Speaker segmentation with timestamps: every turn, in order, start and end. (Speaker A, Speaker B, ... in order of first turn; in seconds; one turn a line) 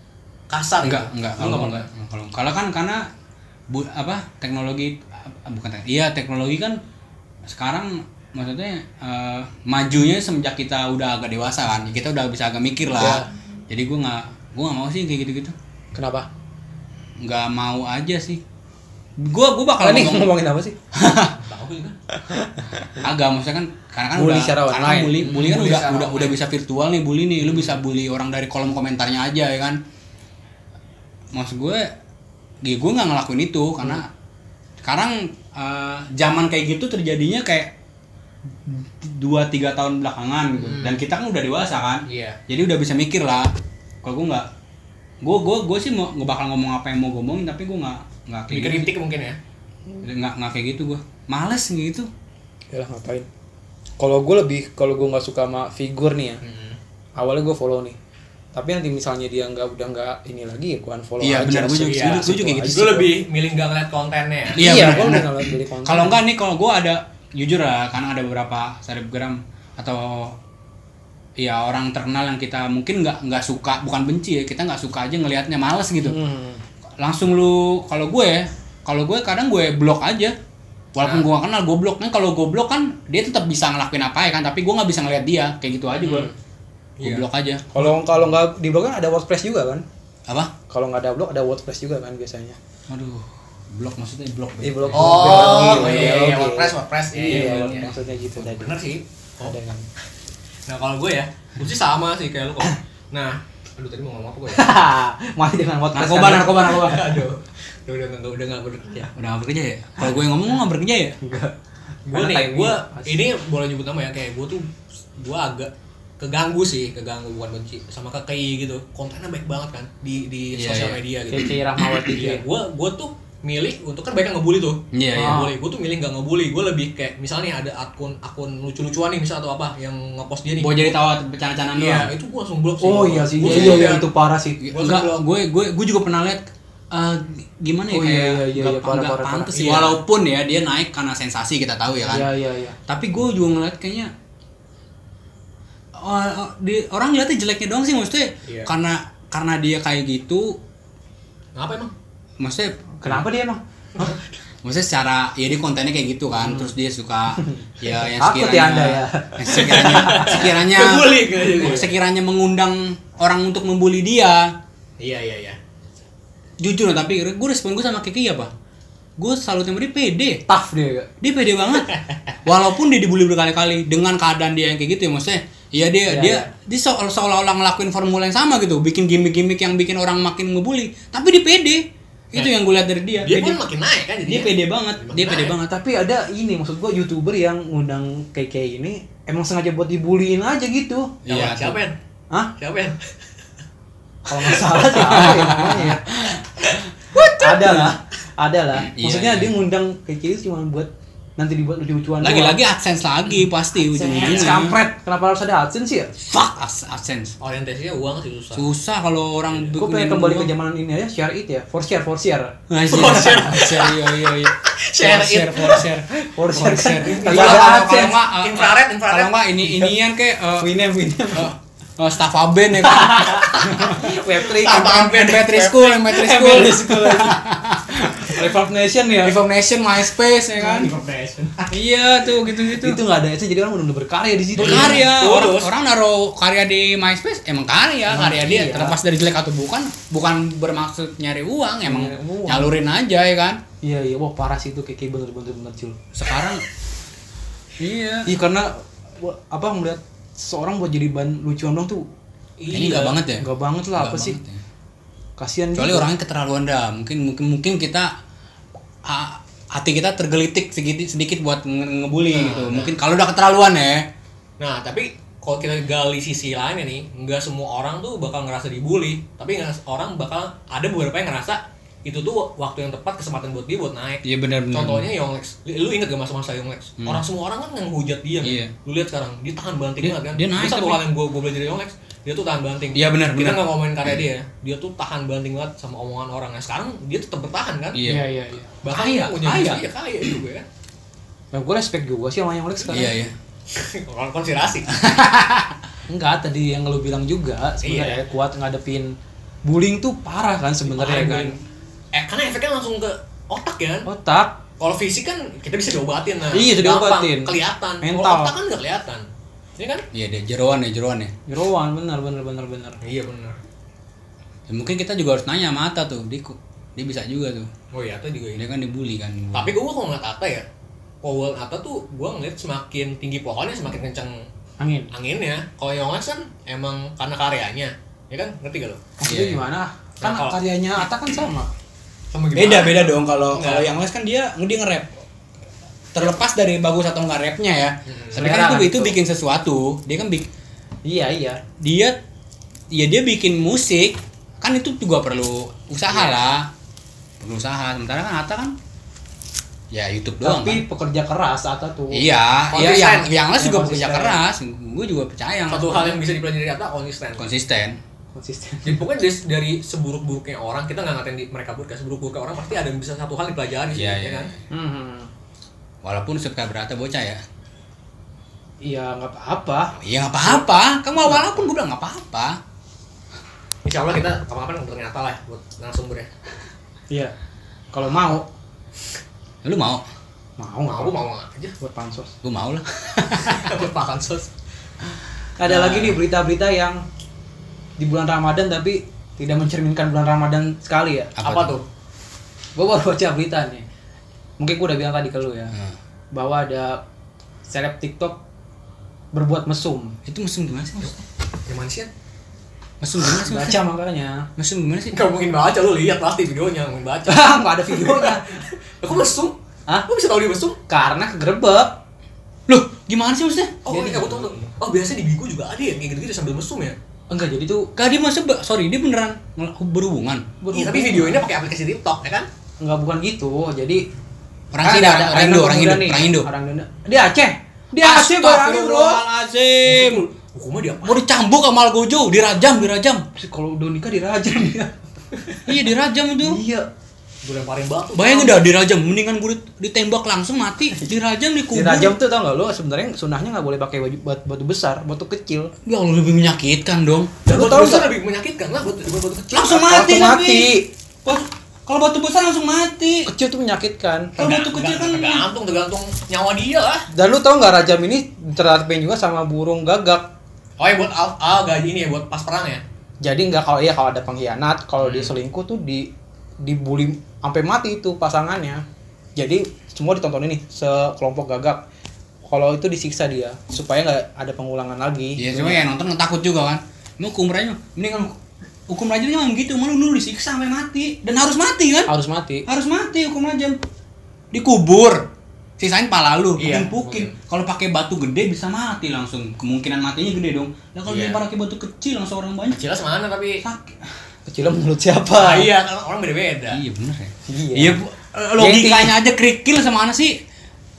Speaker A: 0.5-1.9
Speaker B: 0.8-3.1
Speaker B: 3.7-6.8
Speaker B: 7.5-15.6
Speaker C: 13.0-13.3
Speaker C: 15.9-16.3
Speaker B: 17.2-18.4
Speaker B: 19.2-20.3
Speaker C: 19.8-20.8
Speaker B: 20.9-21.4
Speaker A: 21.3-22.0
Speaker C: 22.2-23.0
Speaker B: 23.0-29.8
Speaker C: 24.1-25.2
Speaker A: 25.2-26.4
Speaker B: 31.3-31.9
Speaker B: 32.6-34.1
Speaker B: 34.8-37.7
Speaker B: 38.6-43.5
Speaker A: 40.6-41.0
Speaker A: 42.1-42.4
Speaker B: 44.0-44.5
Speaker B: 45.2-48.9
Speaker A: 48.5-49.4
Speaker B: 50.0-52.1
Speaker C: 52.7-53.3
Speaker C: 54.0-56.4
Speaker A: 56.4-56.8
Speaker C: 57.2-58.0
Speaker C: 58.5-63.1
Speaker B: 61.2-62.9
Speaker A: 61.8-64.7
Speaker C: 64.6-66.2
Speaker B: 64.6-70.4
Speaker B: 71.4-76.2
Speaker C: 76.0-76.6
Speaker B: 77.0-80.4
Speaker B: 81.0-86.3
Speaker A: 81.0-81.3
Speaker A: 86.0-86.3
Speaker A: 87.0-87.3
Speaker B: 87.0-87.7
Speaker C: 87.7-89.8
Speaker B: 90.3-90.5
Speaker C: 90.7-92.6
Speaker B: 92.9-96.0
Speaker C: 94.6-98.8
Speaker A: 94.9-99.6
Speaker B: 97.3-98.1
Speaker C: 99.4-99.9
Speaker A: 100.7-104.7
Speaker C: 104.5-106.9
Speaker B: 105.9-107.2
Speaker A: 106.5-109.1
Speaker B: 109.1-111.2
Speaker C: 111.2-111.5
Speaker A: 112.1-121.6
Speaker C: 112.1-113.2
Speaker B: 120.5-121.0
Speaker C: 121.3-122.4
Speaker B: 121.8-122.1
Speaker A: 122.1-131.0
Speaker B: 124.9-125.5
Speaker C: 125.2-125.5
Speaker B: 130.6-132.1
Speaker A: 131.8-134.1
Speaker C: 132.8-134.6
Speaker B: 133.4-134.0
Speaker B: 134.6-142.3
Speaker A: 134.7-135.2
Speaker C: 137.9-140.0
Speaker C: 142.1-142.8
Speaker B: 142.9-144.1
Speaker B: 146.0-150.6
Speaker A: 148.5-148.7
Speaker A: 151.6-151.9
Speaker B: 152.4-153.3
Speaker C: 153.0-154.2
Speaker A: 154.0-154.2
Speaker B: 154.6-164.6
Speaker C: 156.4-156.7
Speaker C: 157.4-160.4
Speaker A: 159.6-161.9
Speaker A: 165.0-165.6
Speaker B: 166.6-168.5
Speaker B: 169.2-170.4
Speaker C: 170.5-171.1
Speaker B: 171.2-183.6
Speaker A: 171.8-172.3
Speaker C: 176.1-176.5
Speaker A: 183.2-185.6
Speaker B: 184.3-185.8
Speaker C: 185.6-191.2
Speaker B: 191.2-191.8
Speaker A: 191.3-192.0
Speaker A: 192.6-193.0
Speaker C: 194.3-196.2
Speaker B: 194.9-196.4
Speaker A: 197.1-197.9
Speaker C: 197.2-202.6
Speaker B: 198.8-199.5
Speaker B: 202.2-204.8
Speaker C: 203.9-206.1
Speaker A: 204.2-204.5
Speaker B: 206.2-207.4
Speaker A: 207.4-208.7
Speaker B: 208.6-210.5
Speaker C: 209.8-213.2
Speaker B: 212.7-220.7
Speaker A: 212.9-215.8
Speaker C: 216.2-218.2
Speaker A: 217.0-219.3
Speaker C: 219.6-219.9
Speaker C: 220.6-221.5
Speaker B: 221.3-228.5
Speaker C: 222.8-225.1
Speaker A: 223.7-226.0
Speaker C: 226.0-229.4
Speaker B: 229.2-230.9
Speaker A: 230.6-231.7
Speaker B: 231.7-233.0
Speaker C: 232.6-235.0
Speaker A: 234.6-235.7
Speaker B: 234.6-243.6
Speaker C: 238.1-239.0
Speaker C: 241.8-242.7
Speaker C: 243.8-246.0
Speaker B: 246.1-246.6
Speaker B: 247.8-248.3
Speaker C: 248.3-252.1
Speaker A: 252.6-253.2
Speaker B: 252.7-254.6
Speaker C: 253.4-254.4
Speaker C: 255.4-256.1
Speaker B: 255.8-258.1
Speaker B: 259.0-264.1
Speaker A: 262.3-262.9
Speaker A: 264.6-288.0
Speaker B: 274.2-275.1
Speaker B: 278.4-278.7
Speaker B: 280.0-281.0
Speaker B: 282.9-284.2
Speaker B: 287.9-288.3
Speaker C: 288.0-288.7
Speaker A: 288.8-290.7
Speaker B: 288.9-289.9
Speaker C: 291.5-293.1
Speaker B: 292.9-293.3
Speaker A: 293.7-294.9
Speaker B: 294.9-295.8
Speaker C: 296.1-301.6
Speaker A: 297.8-298.2
Speaker A: 300.9-301.6
Speaker A: 302.1-304.1
Speaker C: 304.1-304.6
Speaker A: 304.8-309.3
Speaker C: 306.5-308.5
Speaker A: 309.8-310.1
Speaker B: 310.1-311.3
Speaker C: 311.5-313.0
Speaker A: 313.0-313.6
Speaker B: 314.7-317.7
Speaker A: 317.9-318.6
Speaker B: 318.5-319.8
Speaker A: 319.5-320.6
Speaker A: 321.2-324.5
Speaker C: 324.8-325.1
Speaker A: 325.1-329.0
Speaker C: 329.2-331.7
Speaker B: 329.3-329.6
Speaker A: 330.2-330.6
Speaker A: 332.3-333.9
Speaker B: 332.6-335.2
Speaker B: 336.1-340.5
Speaker A: 338.1-338.4
Speaker C: 338.4-339.2
Speaker C: 341.1-341.6
Speaker B: 341.8-342.2
Speaker B: 342.9-346.7
Speaker B: 347.4-348.8
Speaker B: 349.9-350.8
Speaker C: 350.4-352.2
Speaker B: 352.1-356.2
Speaker A: 352.7-353.3
Speaker C: 353.6-354.4
Speaker A: 355.7-357.4
Speaker B: 357.4-358.0
Speaker C: 358.4-359.1
Speaker A: 358.8-364.5
Speaker B: 363.9-364.6
Speaker C: 364.7-365.3
Speaker B: 366.0-367.4
Speaker C: 368.8-370.7
Speaker B: 370.0-372.6
Speaker A: 373.9-376.3
Speaker C: 377.9-378.5
Speaker B: 379.6-380.1
Speaker C: 380.6-381.2
Speaker A: 380.9-381.8
Speaker C: 381.8-382.4
Speaker B: 382.4-383.7
Speaker A: 383.5-384.5
Speaker C: 385.6-387.0
Speaker B: 385.7-386.2
Speaker C: 388.0-391.4
Speaker B: 391.4-391.8
Speaker A: 391.4-391.9
Speaker C: 392.8-393.9
Speaker C: 394.6-395.8
Speaker C: 396.3-397.0
Speaker C: 397.7-398.4
Speaker C: 399.3-400.2
Speaker B: 400.3-401.1
Speaker A: 401.7-402.1
Speaker B: 403.0-403.8
Speaker C: 403.3-404.5
Speaker B: 404.6-405.2
Speaker A: 405.1-410.8
Speaker C: 407.3-408.5
Speaker C: 410.9-412.0
Speaker B: 412.7-413.9
Speaker A: 413.9-417.0
Speaker C: 413.9-414.4
Speaker C: 417.3-417.9
Speaker B: 418.0-420.5
Speaker C: 420.6-421.4
Speaker A: 420.7-422.5
Speaker C: 422.8-424.1
Speaker B: 424.7-426.5
Speaker C: 424.8-429.2
Speaker B: 428.0-430.2
Speaker A: 429.9-431.2
Speaker B: 431.0-433.2
Speaker C: 433.4-434.9
Speaker B: 435.7-436.6
Speaker C: 436.4-436.9
Speaker A: 437.4-438.6
Speaker B: 438.1-442.2
Speaker C: 441.7-445.7
Speaker B: 445.9-447.4
Speaker C: 447.5-448.1
Speaker A: 447.5-449.9
Speaker B: 449.5-453.3
Speaker C: 449.7-450.9
Speaker C: 453.3-454.5
Speaker B: 454.4-455.5
Speaker A: 454.4-457.1
Speaker C: 457.1-460.2
Speaker A: 460.8-462.8
Speaker C: 463.2-466.1
Speaker A: 465.0-465.3
Speaker C: 466.6-468.8
Speaker C: 469.4-471.8
Speaker C: 472.5-475.9
Speaker B: 475.4-482.1
Speaker C: 482.1-482.7
Speaker B: 482.7-483.8
Speaker B: 484.5-485.3
Speaker B: 485.8-492.8
Speaker A: 486.6-487.4
Speaker A: 491.1-491.4
Speaker A: 492.7-493.6
Speaker B: 493.6-494.0
Speaker C: 494.5-495.7
Speaker A: 495.3-496.8
Speaker B: 496.7-500.4
Speaker C: 497.5-498.0
Speaker C: 498.6-499.2